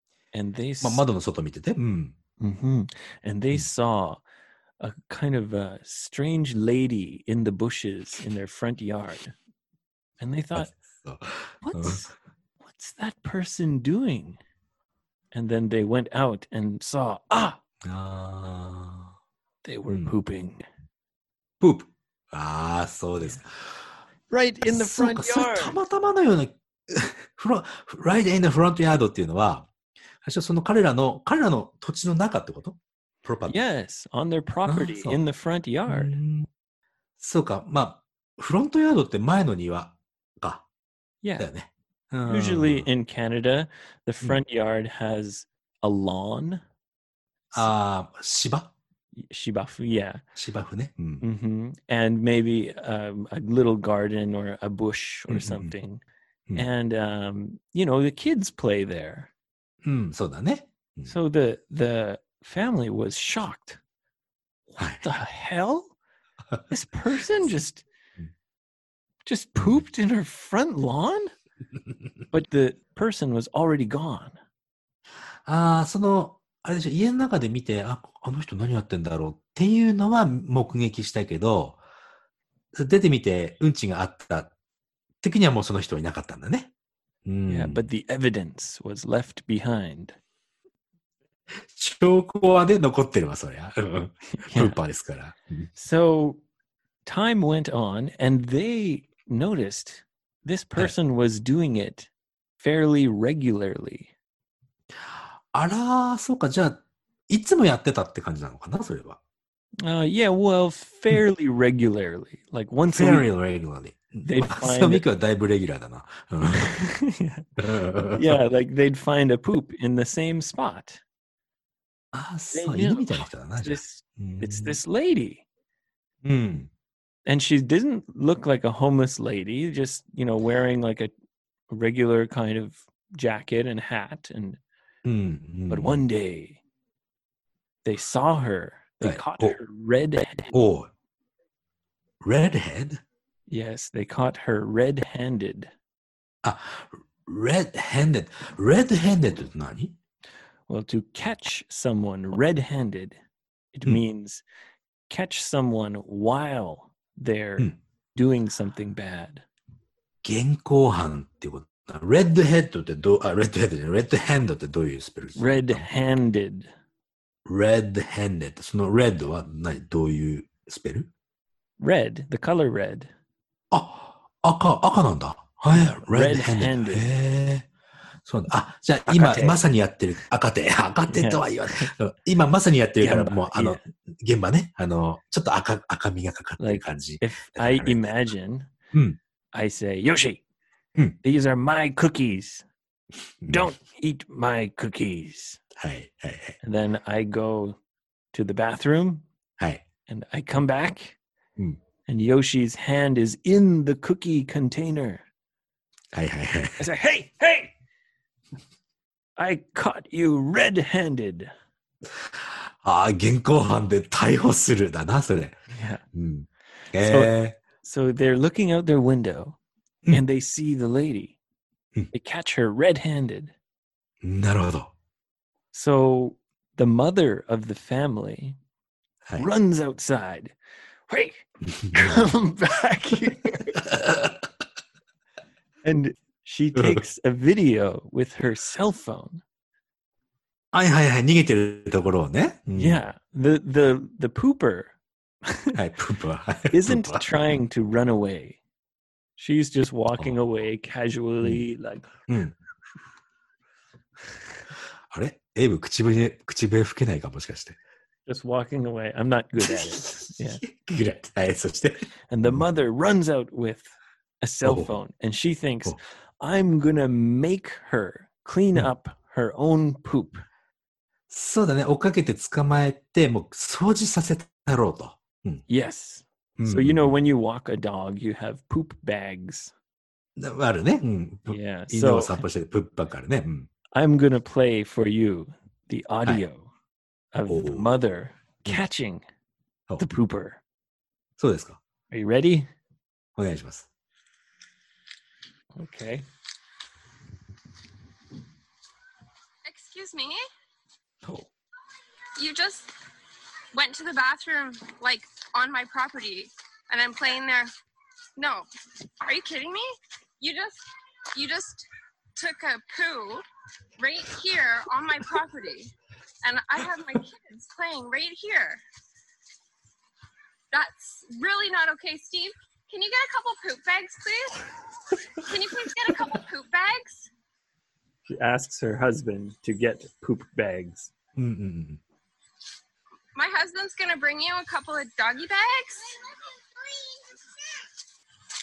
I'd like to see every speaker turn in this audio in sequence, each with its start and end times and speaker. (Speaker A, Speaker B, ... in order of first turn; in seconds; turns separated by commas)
Speaker A: 0.3-1.0, Speaker B: 0.8-2.1, Speaker A: 2.4-4.2, Speaker A: 4.8-9.3, Speaker A: 10.2-10.7, Speaker B: 10.6-12.1, Speaker A: 11.6-14.4, Speaker A: 15.3-17.6, Speaker B: 17.8-19.1, Speaker A: 19.6-20.6, Speaker B: 21.6-23.9, Speaker A: 24.3-25.8, Speaker B: 24.6-29.7, Speaker B: 30.2-33.6, Speaker A: 33.5-36.2, Speaker B: 34.7-35.2, Speaker B: 35.9-36.5, Speaker B: 37.2-40.6, Speaker A: 41.2-41.5, Speaker B: 41.4-42.9, Speaker A: 42.3-46.6, Speaker B: 47.5-48.7, Speaker A: 49.2-50.2, Speaker B: 50.4-51.2, Speaker A: 51.2-56.0, Speaker B: 55.3-55.7, Speaker A: 56.5-59.3, Speaker B: 59.8-61.1, Speaker A: 61.1-63.8, Speaker A: 64.7-65.9, Speaker B: 64.8-65.1, Speaker A: 66.7-67.8, Speaker A: 69.3-71.3, Speaker A: 72.3-74.4, Speaker B: 75.5-81.8, Speaker B: 82.7-84.5, Speaker B: 85.2-86.7, Speaker B: 87.3-87.8, Speaker A: 87.5-90.2, Speaker B: 91.7-95.7, Speaker A: 94.3-94.8, Speaker A: 95.8-96.4, Speaker A: 97.0-104.1, Speaker B: 105.5-109.2, Speaker A: 109.8-113.3, Speaker B: 112.9-116.7, Speaker A: 114.2-115.0, Speaker A: 116.5-117.5, Speaker B: 117.6-118.4, Speaker A: 118.1-121.0, Speaker B: 122.1-124.8, Speaker A: 122.5-125.4, Speaker B: 126.2-126.7, Speaker A: 127.3-131.1, Speaker A: 131.7-134.6, Speaker B: 135.1-136.0, Speaker A: 135.7-136.6, Speaker A: 137.8-140.5, Speaker B: 139.0-139.6, Speaker B: 140.5-140.9, Speaker B: 142.2-143.0, Speaker A: 143.5-145.7, Speaker B: 146.4-149.9, Speaker A: 150.7-153.2, Speaker A: 153.7-154.4, Speaker A: 155.1-159.4, Speaker B: 160.2-165.9, Speaker A: 165.4-166.7, Speaker B: 167.5-171.1, Speaker A: 171.8-173.1, Speaker B: 173.7-177.7, Speaker A: 175.9-177.1, Speaker B: 178.2-188.1, Speaker A: 179.1-179.6, Speaker A: 181.1-181.9, Speaker A: 183.0-183.8, Speaker A: 186.6-188.7, Speaker B: 188.9-189.2, Speaker A: 189.5-190.4, Speaker A: 191.2-192.7, Speaker B: 193.4-193.7, Speaker A: 193.5-195.6, Speaker B: 195.8-196.6, Speaker A: 196.6-197.8, Speaker A: 198.3-199.2, Speaker A: 200.1-201.2, Speaker A: 202.1-205.2, Speaker B: 206.1-206.8, Speaker A: 206.8-207.7, Speaker A: 209.4-211.5, Speaker B: 212.2-215.6, Speaker A: 215.7-216.0, Speaker B: 216.1-217.6, Speaker A: 217.0-219.6, Speaker A: 220.1-221.4, Speaker A: 222.1-223.5, Speaker B: 224.2-224.9, Speaker A: 225.7-228.6, Speaker A: 229.4-230.6, Speaker A: 231.1-233.8, Speaker B: 231.7-232.2, Speaker B: 233.7-234.4, Speaker A: 235.8-239.4, Speaker B: 236.8-237.0, Speaker B: 240.7-243.0, Speaker A: 242.8-245.8, Speaker B: 245.7-247.3, Speaker A: 246.7-248.6, Speaker A: 249.4-252.1, Speaker B: 252.3-252.6, Speaker B: 255.1-257.8, Speaker A: 258.3-260.6, Speaker B: 259.6-262.6, Speaker A: 262.3-270.4, Speaker B: 264.6-264.9, Speaker B: 271.3-275.6, Speaker A: 275.7-279.7, Speaker B: 276.6-277.1, Speaker B: 280.4-283.7, Speaker A: 281.5-282.4, Speaker A: 283.9-286.7, Speaker A: 287.3-289.2, Speaker B: 287.5-287.9, Speaker A: 290.0-290.6, Speaker B: 291.4-291.8, Speaker A: 292.1-292.7, Speaker B: 293.4-293.9, Speaker A: 295.8-296.3, Speaker C: 299.7-300.4, Speaker C: 302.4-302.9, Speaker C: 303.7-307.7, Speaker C: 308.4-308.7, Speaker C: 309.2-309.9, Speaker C: 310.4-310.8, Speaker C: 311.3-313.4, Speaker C: 314.0-315.9, Speaker C: 316.4-318.8, Speaker C: 320.7-324.6, Speaker C: 325.4-327.3, Speaker A: 328.3-331.1, Speaker B: 331.4-332.0, Speaker C: 333.4-336.1